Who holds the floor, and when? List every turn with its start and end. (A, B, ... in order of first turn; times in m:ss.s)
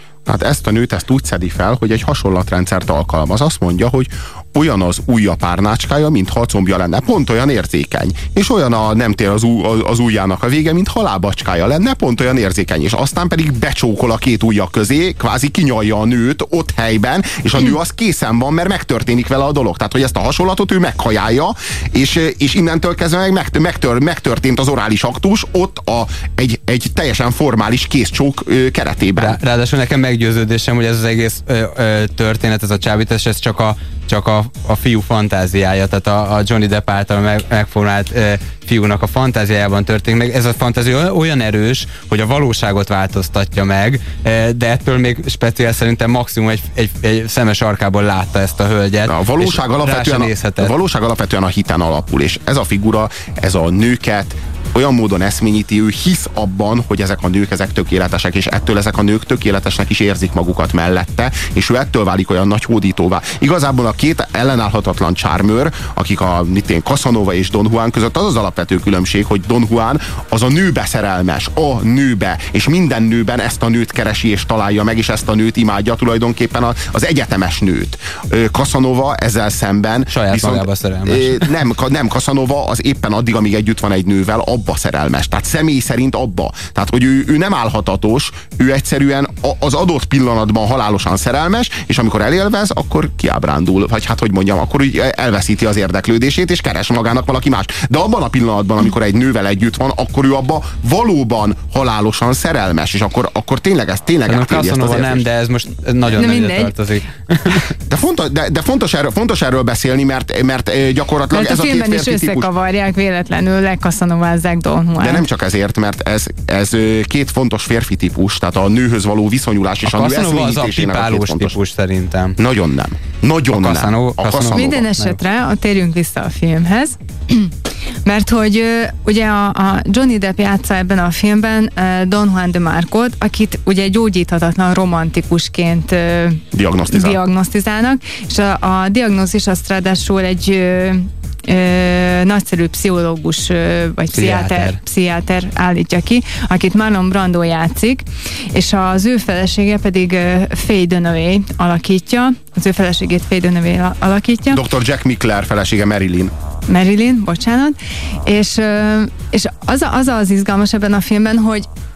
0:00.3-0:29.4 A
0:29.2-0:50.7 B
0:49.1-1:45.2 A
1:20.1-1:21.4 B
1:44.3-1:47.7 B
1:46.0-1:46.7 C
1:47.9-1:52.5 A
1:51.3-1:55.3 C
1:55.0-2:01.6 A
1:59.9-2:02.4 B
2:02.4-2:04.8 A
2:03.5-2:05.2 B
2:04.5-2:07.5 C
2:08.0-2:34.6 C
2:16.5-2:17.2 A
2:24.1-2:24.8 B
2:34.5-2:36.3 A
2:36.7-2:41.7 C